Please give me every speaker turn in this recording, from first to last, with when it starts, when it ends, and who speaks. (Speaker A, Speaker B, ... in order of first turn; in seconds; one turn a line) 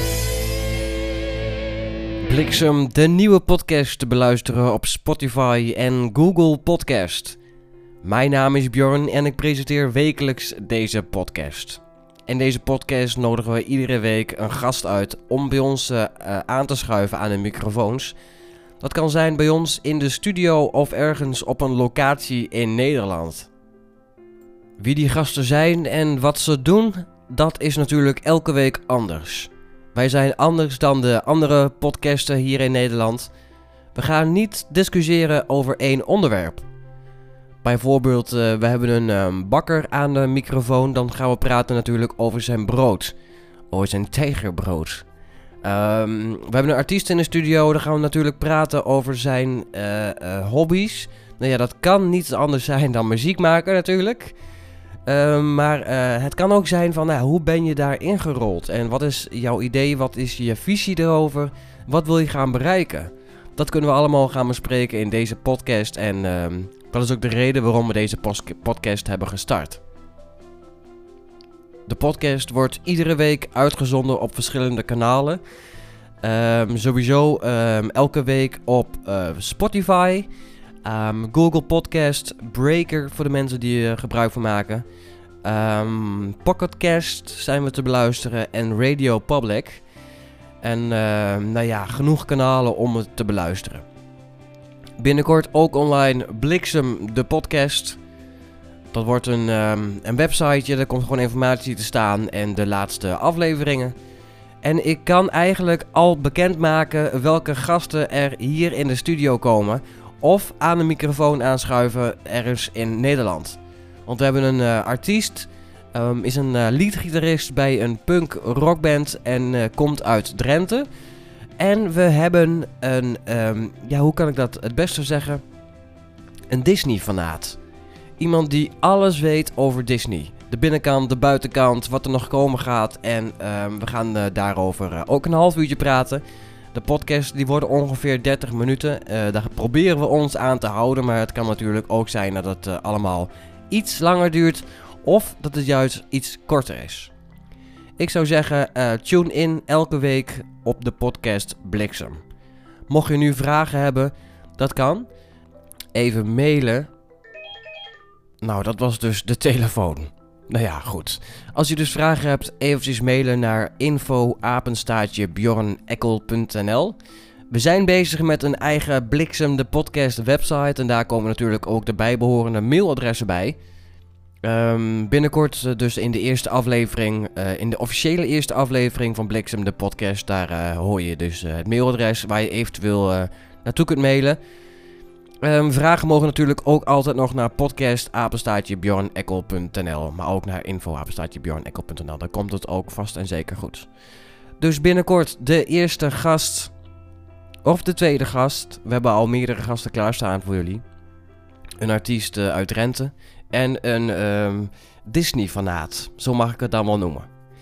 Speaker A: 2.2-7.4
Speaker A: 8.0-18.1
Speaker A: 18.8-23.5
Speaker A: 24.8-33.3
Speaker A: 33.9-36.6
Speaker A: 37.6-43.1
Speaker A: 43.7-45.0
Speaker A: 45.6-54.3
Speaker A: 55.0-69.8
Speaker A: 71.9-75.4
Speaker A: 76.2-80.3
Speaker A: 80.8-84.8
Speaker A: 85.4-89.8
Speaker A: 90.6-93.8
Speaker A: 95.0-98.0
Speaker A: 98.9-103.9
Speaker A: 104.6-120.9
Speaker A: 121.6-125.4
Speaker A: 126.5-127.6
Speaker A: 128.2-136.2
Speaker A: 136.7-147.1
Speaker A: 148.0-152.2
Speaker A: 152.9-155.1
Speaker A: 155.9-156.9
Speaker A: 158.4-167.0
Speaker A: 167.5-173.6
Speaker A: 174.4-184.4
Speaker A: 185.4-193.9
Speaker A: 194.6-196.7
Speaker A: 197.6-200.8
Speaker A: 201.8-207.3